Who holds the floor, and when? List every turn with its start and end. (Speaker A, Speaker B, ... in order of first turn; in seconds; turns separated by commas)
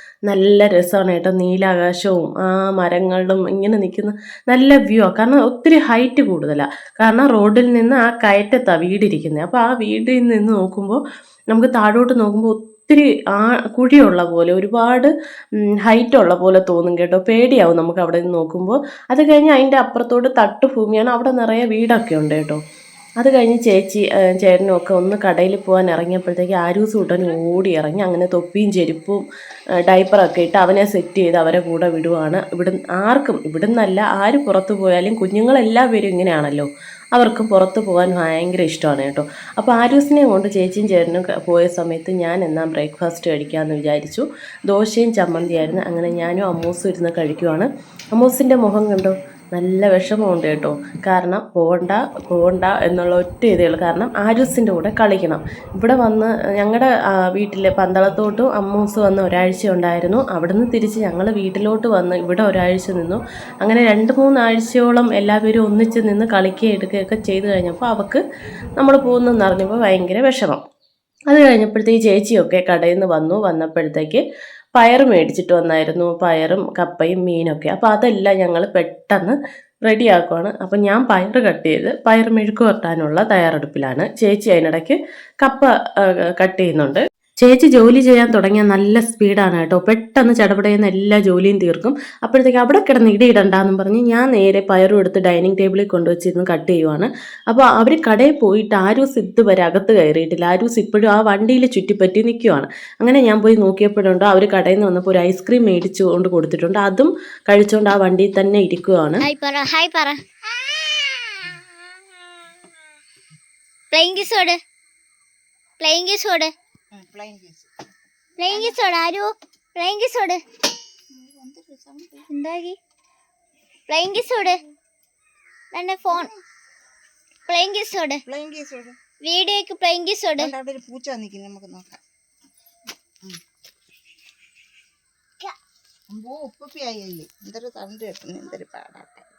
Speaker A: 0.3-11.0, Speaker A: 11.5-15.1, Speaker A: 15.8-22.6, Speaker A: 23.2-29.2, Speaker A: 29.9-68.2, Speaker A: 68.8-70.6, Speaker A: 71.3-74.2, Speaker A: 74.8-109.2, Speaker B: 109.2-110.2, Speaker B: 110.8-111.5, Speaker B: 113.9-114.6, Speaker B: 115.8-116.5, Speaker C: 116.9-117.9, Speaker B: 118.4-120.4, Speaker C: 118.5-118.8, Speaker C: 121.1-122.3, Speaker B: 122.3-122.8, Speaker B: 123.9-124.6, Speaker B: 125.7-126.3, Speaker B: 127.5-128.2, Speaker C: 128.3-129.0, Speaker B: 129.2-130.5, Speaker C: 130.4-132.0, Speaker C: 136.1-139.3